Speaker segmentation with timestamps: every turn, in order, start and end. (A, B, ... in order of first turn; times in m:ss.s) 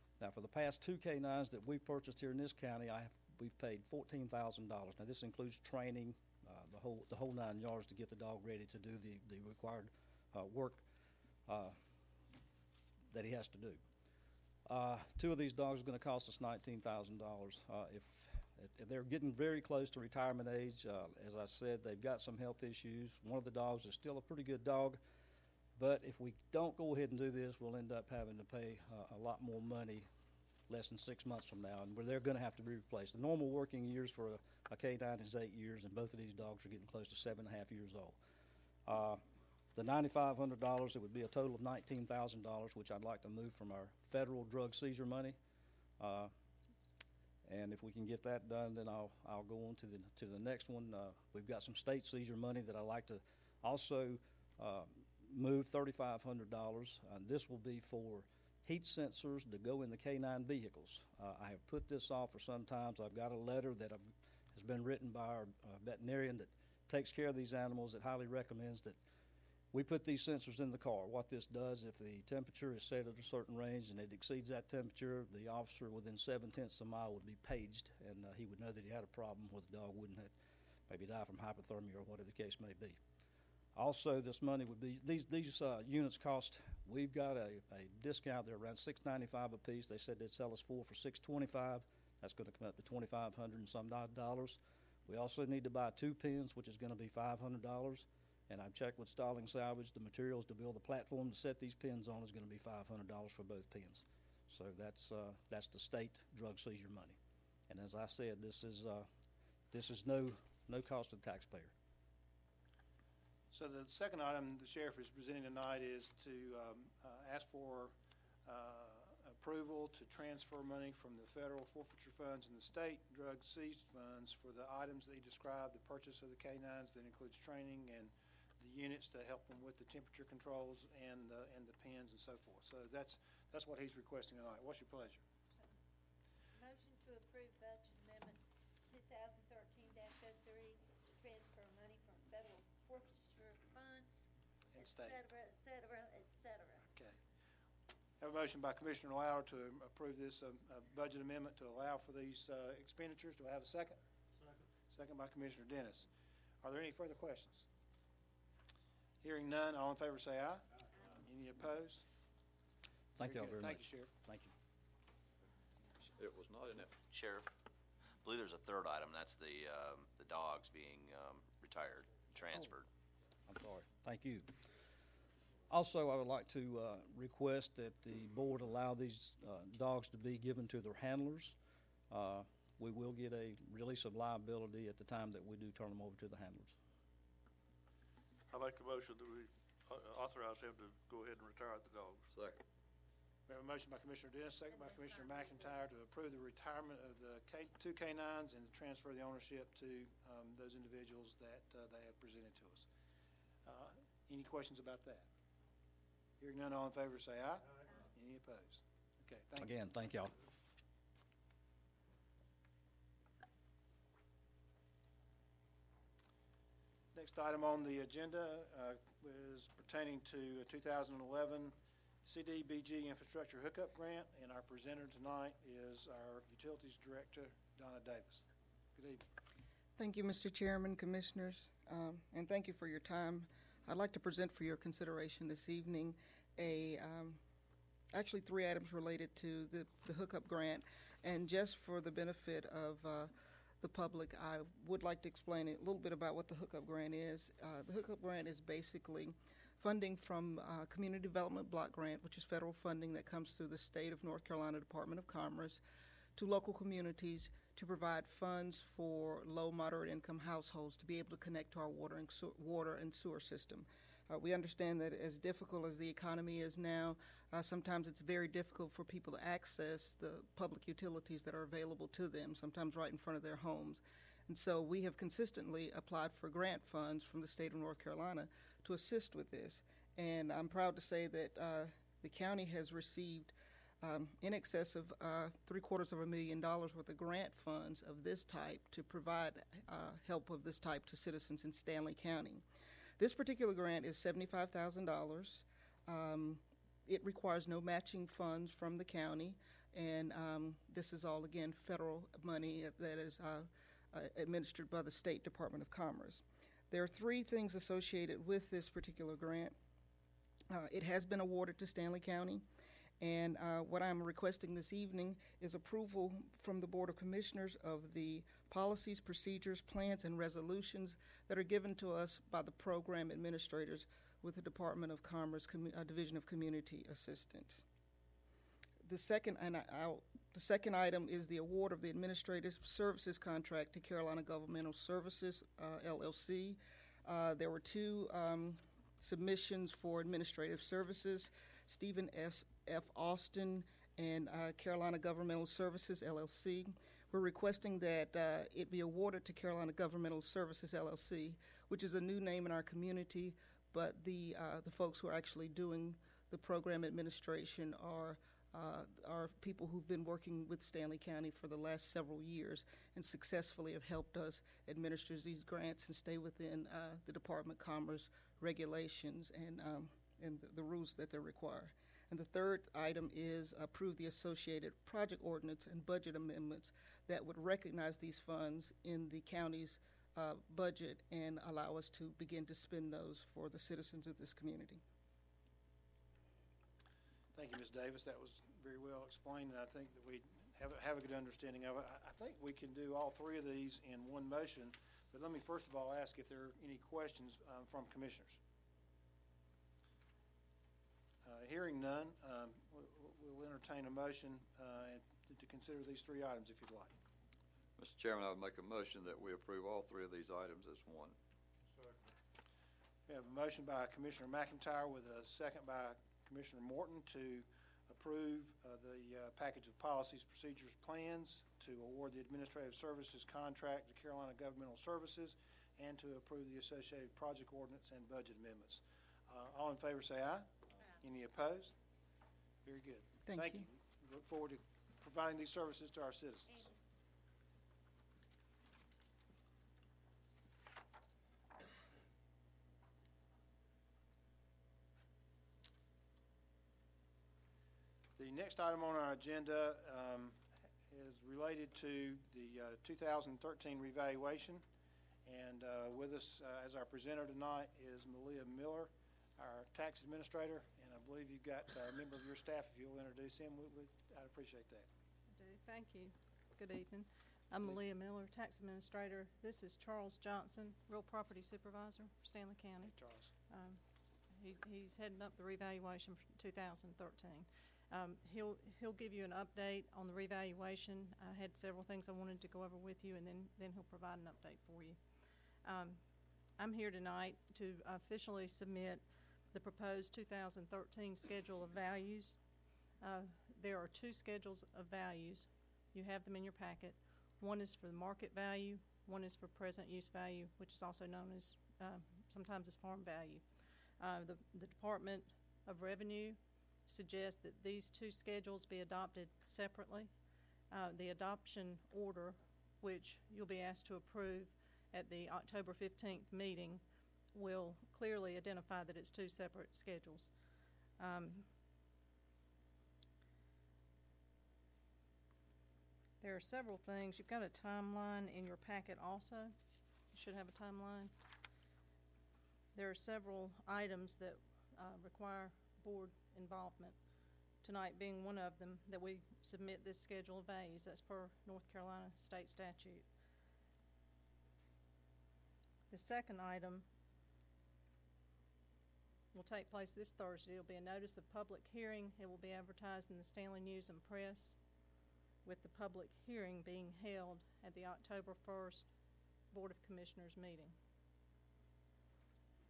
0:00.2-0:10.8 A
0:11.5-0:11.8 A
0:13.1-0:13.8 A
0:14.6-0:25.0 A
0:25.8-0:30.1 A
0:30.7-0:38.2 A
0:38.8-0:39.2 A
0:39.7-0:45.4 A
0:46.0-0:46.3 A
0:47.4-1:09.0 A
1:09.7-1:20.3 A
1:20.9-1:23.0 A
1:23.7-1:47.2 A
1:47.7-1:49.1 A
1:49.7-1:51.7 A
1:53.5-1:57.9 B
1:58.4-2:15.2 B
2:16.6-2:18.4 C
2:18.9-2:24.1 C
2:24.7-2:25.2 B
2:24.8-2:26.8 C
2:28.2-2:34.0 B
2:34.9-2:36.1 B
2:36.6-2:37.6 B
2:39.2-2:42.0 B
2:43.2-2:44.1 B
2:43.2-2:44.5 A
2:46.2-2:46.9 D
2:47.1-2:47.4 E
2:48.2-2:52.9 E
2:53.5-2:54.5 A
2:55.7-3:01.6 A
3:02.1-3:06.8 A
3:08.5-3:12.3 F
3:12.3-3:12.6 D
3:13.5-3:22.8 B
3:23.6-3:25.2 B
3:26.4-3:30.1 B
3:29.6-3:30.3 A
3:37.1-3:41.7 B
3:42.2-3:49.2 B
3:50.0-3:57.4 G
3:58.1-4:15.8 G
4:16.4-4:52.6 G
4:53.2-5:09.7 G
5:10.7-5:12.6 G
5:13.2-5:27.8 G
5:29.0-6:25.0 G
6:27.5-6:38.6 B
6:41.4-6:47.1 B
6:48.0-6:51.4 D
6:53.3-7:11.9 B
7:12.8-7:16.9 B
7:13.4-7:13.9 G
7:28.4-7:34.8 B
7:35.4-7:45.0 B
7:45.5-7:53.1 H
7:53.0-7:53.5 B
7:53.7-7:54.0 H
7:54.6-8:05.2 H
8:05.8-8:06.2 H
8:06.8-8:12.6 H
8:13.2-8:23.6 H
8:24.2-8:30.3 H
8:30.9-8:37.0 H
8:37.5-8:40.5 H
8:41.2-8:41.7 H
8:46.4-8:49.8 H
8:50.3-8:51.3 H
8:52.9-8:57.2 H
8:57.8-9:03.2 H
9:06.1-9:07.0 H
9:09.5-9:14.8 H
9:15.6-9:19.1 H
9:19.7-9:20.9 H